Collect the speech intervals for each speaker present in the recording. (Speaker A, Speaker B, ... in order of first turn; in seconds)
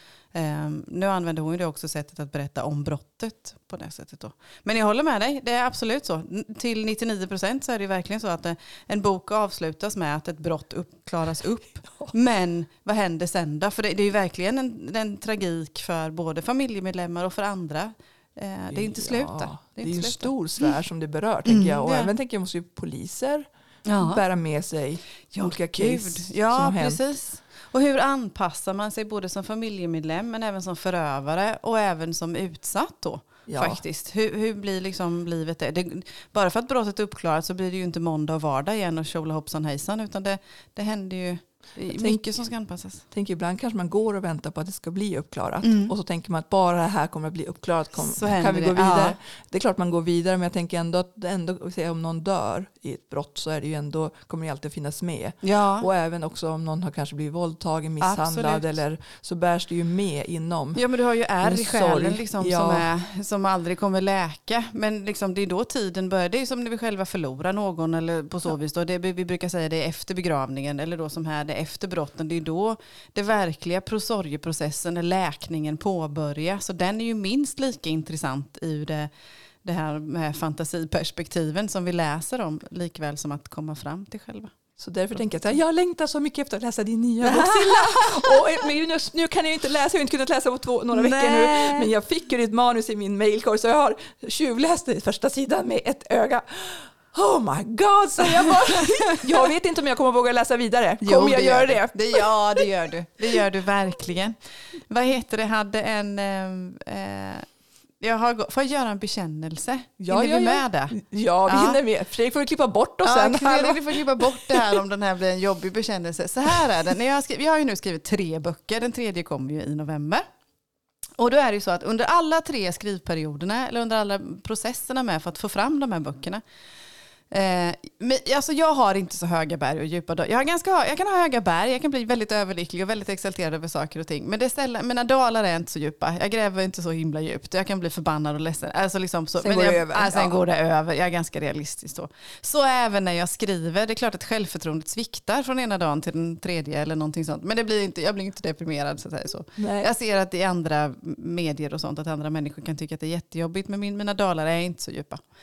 Speaker A: 0.3-20.3, 21.5-22.1, 23.9-24.2, 25.3-43.0, 45.6-45.9, 48.0-49.2, 55.4-55.9, 58.0-58.6, 60.8-79.1, 79.6-84.5, 87.2-88.6, 90.9-91.9, 98.2-99.5, 101.0-107.5, 108.0-111.8, 113.0-120.2, 121.2-126.4, 127.3-155.2
Speaker B: 18.7-27.0, 33.5-33.8, 41.9-42.3, 43.1-60.8, 61.4-62.9, 84.8-102.7, 110.0-114.8, 139.4-140.4, 149.6-149.9